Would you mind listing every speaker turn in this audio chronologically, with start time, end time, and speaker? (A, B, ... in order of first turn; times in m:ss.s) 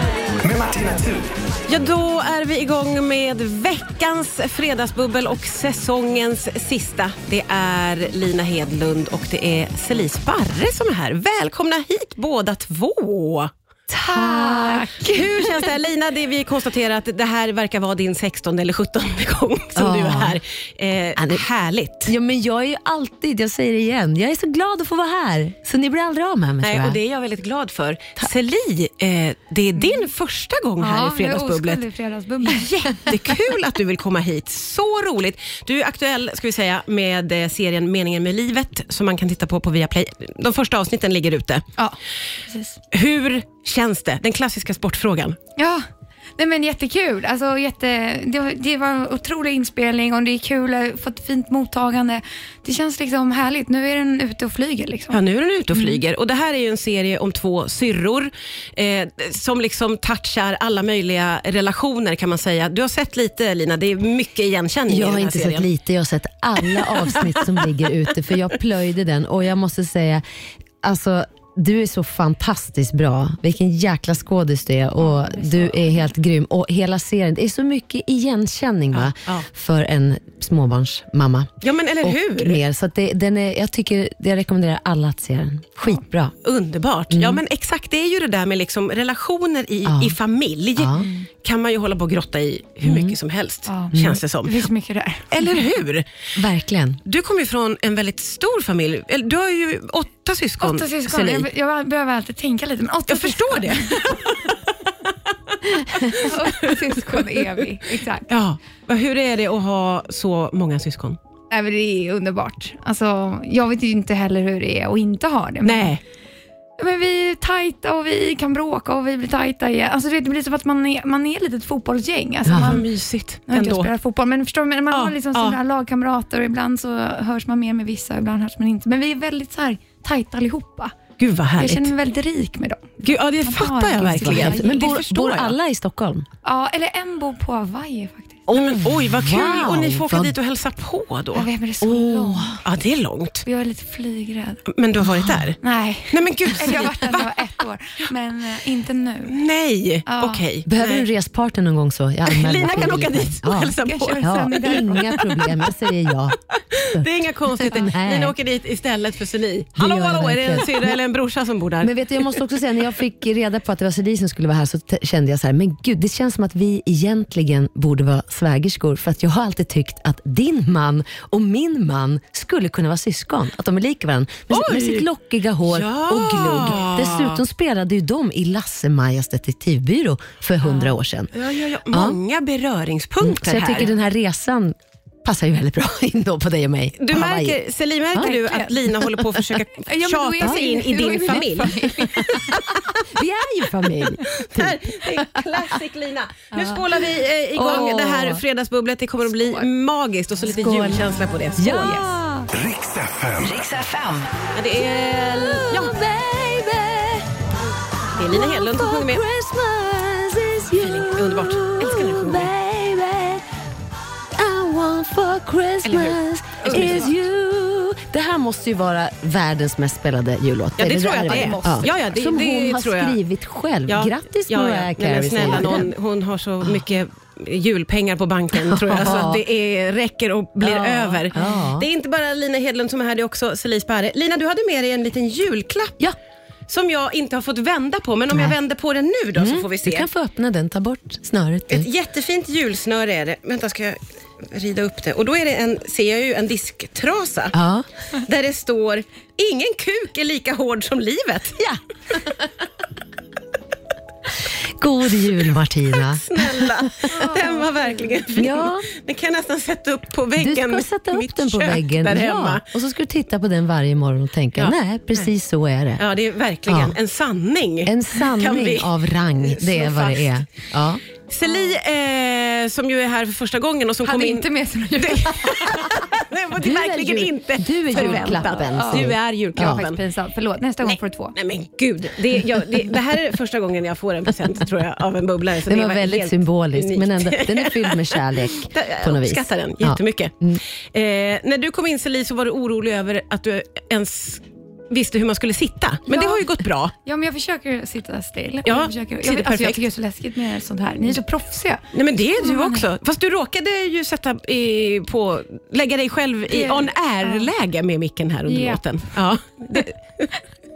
0:00.4-0:01.3 A
0:01.7-0:13.5 B
0:13.9-0:14.9 C
0:14.0-0:15.3 D
0:15.0-0:22.1 B
0:19.8-0:20.4 C
0:21.2-0:21.4 C
0:22.1-0:27.0 C
0:26.6-0:31.8 B
0:29.8-0:30.1 D
0:30.8-0:33.1 D
0:32.5-0:41.6 B
0:42.5-0:42.8 D
0:42.9-0:45.4 B
0:45.6-0:45.8 D
0:46.4-0:55.2 D
0:55.1-1:05.7 B
0:55.7-0:56.0 D
1:04.9-1:10.2 C
1:06.7-1:07.7 B
1:10.8-1:26.3 C
1:15.0-1:16.1 D
1:18.9-1:19.5 B
1:21.6-1:22.6 B
1:26.4-1:34.7 B
1:27.1-1:27.4 C
1:29.8-1:30.2 C
1:30.8-1:31.0 C
1:31.0-1:31.3 D
1:32.8-1:33.2 C
1:33.7-1:35.6 D
1:33.9-1:34.2 C
1:35.3-1:36.0 B
1:36.4-1:37.0 C
1:37.0-1:41.5 B
1:40.6-1:44.2 D
1:43.1-1:44.5 B
1:46.0-1:47.6 B
1:46.1-1:48.3 D
1:48.3-1:51.2 B
1:51.5-1:56.0 D
1:55.6-1:56.0 B
1:56.8-2:02.8 D
2:02.5-2:02.8 C
2:02.6-2:03.9 B
2:03.5-2:11.0 D
2:04.9-2:05.6 B
2:11.2-2:11.9 B
2:11.6-2:14.9 D
2:13.0-2:15.6 B
2:14.1-2:16.3 C
2:16.4-2:18.4 D
2:18.5-2:20.4 C
2:18.5-2:21.5 B
2:21.3-2:22.6 D
2:21.8-2:22.6 C
2:22.6-2:23.4 B
2:23.4-2:24.6 D
2:24.7-2:25.6 B
2:25.6-2:29.4 D
2:26.1-2:27.4 B
2:29.3-2:31.1 B
2:30.1-2:30.4 D
2:30.7-2:36.4 C
2:32.3-2:35.2 B
2:33.8-2:35.3 D
2:36.8-2:42.4 B
2:36.9-2:38.4 C
2:39.8-2:41.0 C
2:41.8-3:01.3 C
2:54.5-2:55.1 B
2:55.7-2:57.4 B
3:01.3-3:03.9 B
3:01.9-3:02.2 C
3:03.2-3:07.6 C
3:07.0-3:12.9 B
3:08.2-3:08.8 D
3:08.9-3:09.6 C
3:09.9-3:12.6 D
3:10.4-3:15.8 C
3:14.2-3:22.0 B
3:16.5-3:16.8 D
3:17.5-3:18.4 C
3:17.7-3:18.4 D
3:19.3-3:19.7 D
3:20.5-3:22.5 C
3:21.9-3:22.4 D
3:22.5-3:23.8 A
3:24.5-3:26.0 B
3:25.2-3:27.3 C
3:28.2-3:33.5 C
3:28.2-3:29.2 B
3:30.8-3:32.5 B
3:34.4-3:45.9 C
3:35.8-3:37.1 B
3:40.8-3:43.2 B
3:41.3-3:41.9 D
3:43.9-3:56.0 B
3:48.6-3:49.4 C
3:50.6-3:51.9 C
3:56.7-4:00.1 B
3:59.4-4:01.9 C
4:01.7-4:07.6 B
4:07.5-4:07.9 C
4:08.2-4:11.6 B
4:11.6-4:12.5 C
4:14.5-4:17.1 C
4:15.9-4:22.6 B
4:17.1-4:18.2 D
4:18.3-4:18.9 C
4:20.4-4:26.0 C
4:24.6-4:25.3 B
4:26.0-4:30.4 B
4:26.7-4:27.0 C
4:27.8-4:31.0 C
4:31.3-4:40.0 B
4:31.5-4:31.7 D
4:34.0-4:35.9 D
4:36.6-4:39.8 C
4:37.9-4:41.4 D
4:40.8-4:56.9 B
4:45.6-4:50.6 C
4:56.1-4:56.5 D
4:57.0-5:02.9 D
4:58.6-4:59.8 B
5:01.9-5:10.3 B
5:06.5-5:07.5 D
5:08.5-5:08.8 D